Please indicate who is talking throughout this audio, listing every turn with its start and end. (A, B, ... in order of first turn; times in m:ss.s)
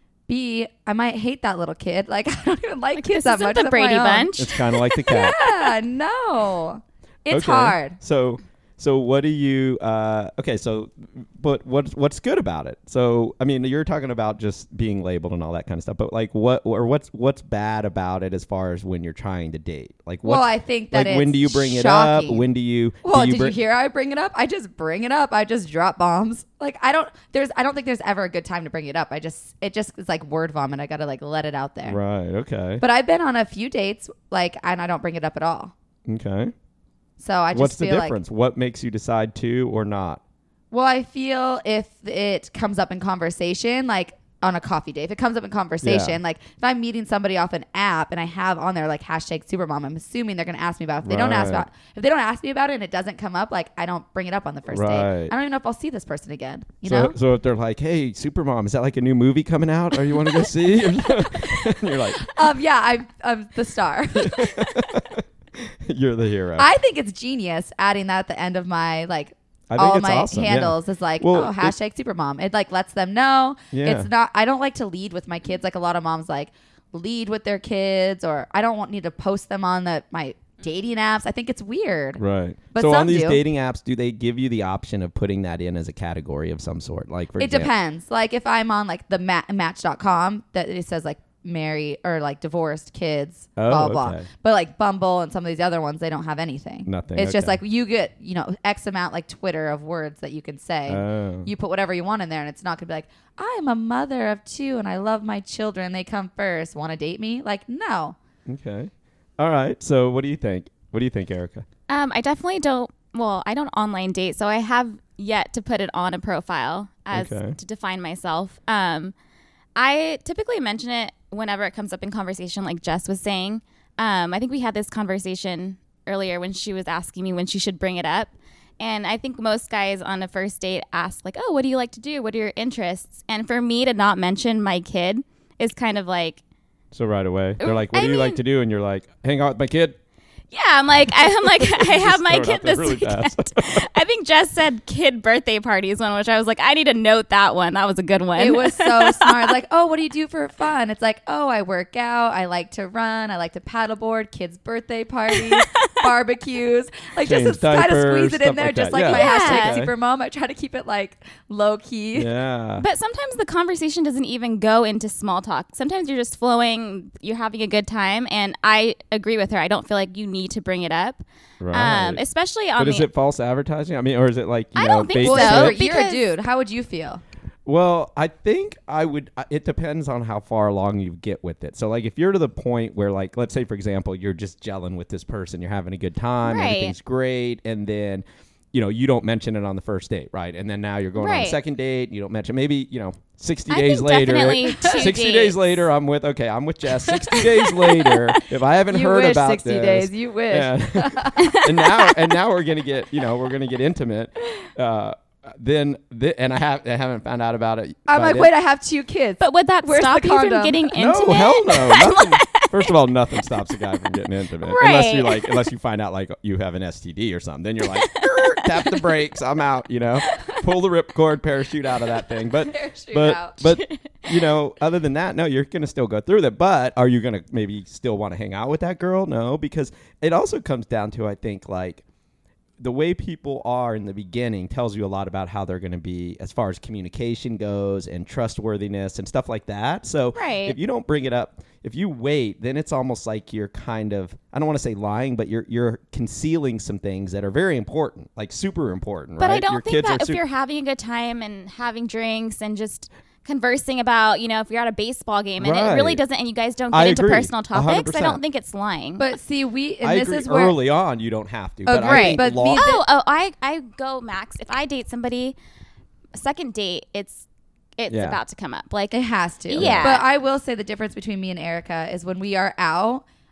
0:00.3-0:08.0 A
0:03.0-0:04.6 B
0:04.4-0:05.4 C
0:07.3-0:23.6 C
0:20.2-0:22.4 A
0:23.0-0:32.0 A
0:31.9-0:32.8 C
0:32.8-0:35.7 A
0:36.1-0:36.5 C
0:37.2-0:38.2 A
0:37.5-0:40.2 C
0:40.7-0:57.2 A
0:45.8-0:46.2 C
0:51.0-0:51.7 C
0:54.7-0:55.3 C
0:56.8-1:02.3 C
1:01.2-1:01.6 A
1:02.2-1:04.9 A
1:04.2-1:06.7 C
1:06.6-1:22.2 A
1:09.7-1:11.8 C
1:13.7-1:14.1 C
1:22.2-1:27.7 C
1:22.7-1:23.4 A
1:27.4-1:48.2 A
1:33.6-1:34.3 C
1:36.9-1:37.6 C
1:40.9-1:41.5 C
1:48.5-1:51.7 C
1:51.9-1:59.1 B
1:57.1-1:57.6 C
1:59.8-2:16.4 B
2:16.9-2:20.0 C
2:17.6-2:18.4 B
2:20.5-2:29.5 B
2:21.2-2:23.9 C
2:28.4-2:42.3 A
2:35.3-2:35.8 B
2:37.2-2:39.9 C
2:39.1-2:39.8 B
2:42.2-2:42.9 C
2:42.8-2:53.1 B
2:51.6-2:52.2 C
2:52.8-2:55.8 C
2:54.8-2:56.3 B
2:55.2-2:57.2 A
2:57.6-3:28.5 C
3:06.4-3:06.9 B
3:11.2-3:11.6 B
3:13.7-3:15.9 B
3:14.7-3:15.1 A
3:17.0-3:21.6 A
3:21.4-3:21.8 B
3:28.1-3:30.9 A
3:29.4-3:35.7 B
3:31.0-3:52.0 C
3:37.8-3:39.1 B
3:42.4-3:43.6 A
3:43.6-3:44.3 B
3:52.8-4:10.4 C
4:00.4-4:00.8 B
4:09.4-4:19.3 B
4:15.6-4:16.2 C
4:16.9-4:18.4 C
4:19.2-4:20.8 A
4:20.0-4:22.9 C
4:21.9-4:23.0 A
4:22.0-4:25.6 B
4:26.4-4:27.5 B
4:28.0-4:30.2 B
4:28.1-4:28.4 C
4:29.1-4:33.2 A
4:29.8-4:30.2 C